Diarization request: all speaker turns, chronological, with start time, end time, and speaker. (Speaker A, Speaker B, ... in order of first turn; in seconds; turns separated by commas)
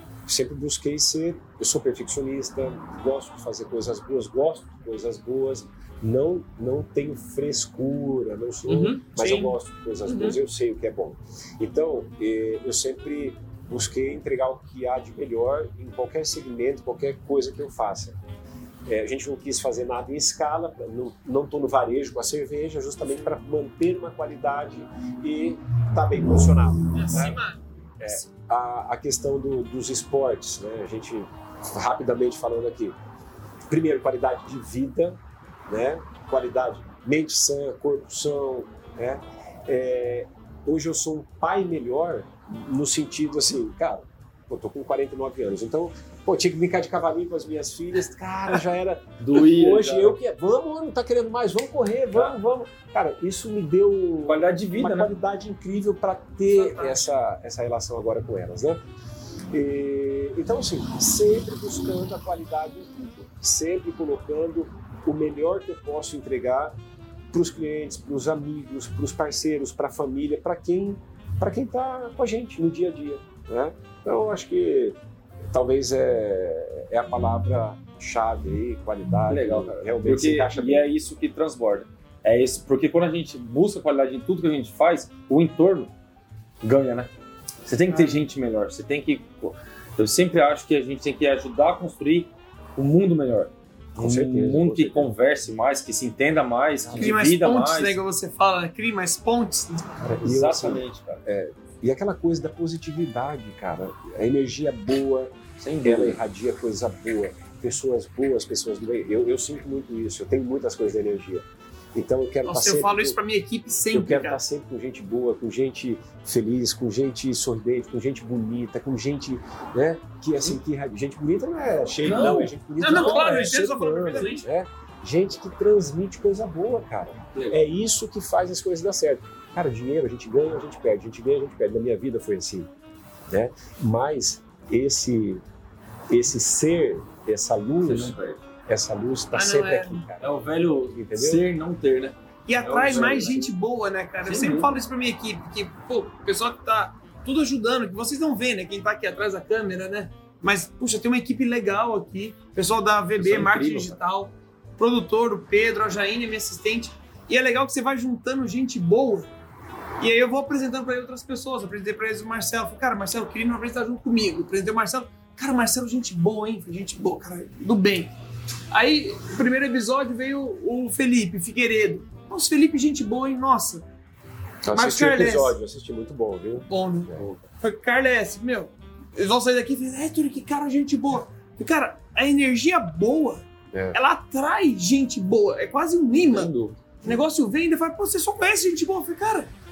Speaker A: 0.2-18.2, Speaker B: 8.7-9.1, Speaker C: 9.2-10.4, Speaker A: 18.9-27.4, Speaker C: 26.9-28.2, Speaker A: 28.0-33.0, Speaker A: 33.7-58.8, Speaker B: 49.2-50.2, Speaker B: 54.2-55.1, Speaker C: 56.5-57.0, Speaker A: 59.5-66.7, Speaker A: 67.3-75.0, Speaker A: 75.5-80.9, Speaker B: 79.3-85.9, Speaker B: 86.6-87.1, Speaker B: 87.7-98.0, Speaker C: 87.9-88.2, Speaker A: 94.0-95.1, Speaker A: 96.8-97.2, Speaker C: 97.0-99.8, Speaker A: 100.0-113.2, Speaker B: 100.2-101.2, Speaker B: 105.6-106.2, Speaker C: 112.4-114.4, Speaker A: 113.9-132.7, Speaker B: 122.0-123.3, Speaker C: 122.1-124.5, Speaker B: 127.3-127.6, Speaker A: 133.3-135.4, Speaker A: 136.1-138.1, Speaker B: 137.8-138.4, Speaker A: 138.7-141.4, Speaker C: 139.3-140.0, Speaker B: 140.2-143.5, Speaker C: 142.5-159.3, Speaker A: 143.0-143.4, Speaker B: 144.3-144.7, Speaker B: 153.2-154.0, Speaker C: 160.0-168.1, Speaker C: 168.7-173.8, Speaker A: 174.6-177.2, Speaker C: 174.7-175.5, Speaker C: 176.7-189.5, Speaker A: 183.7-184.0, Speaker B: 186.2-186.8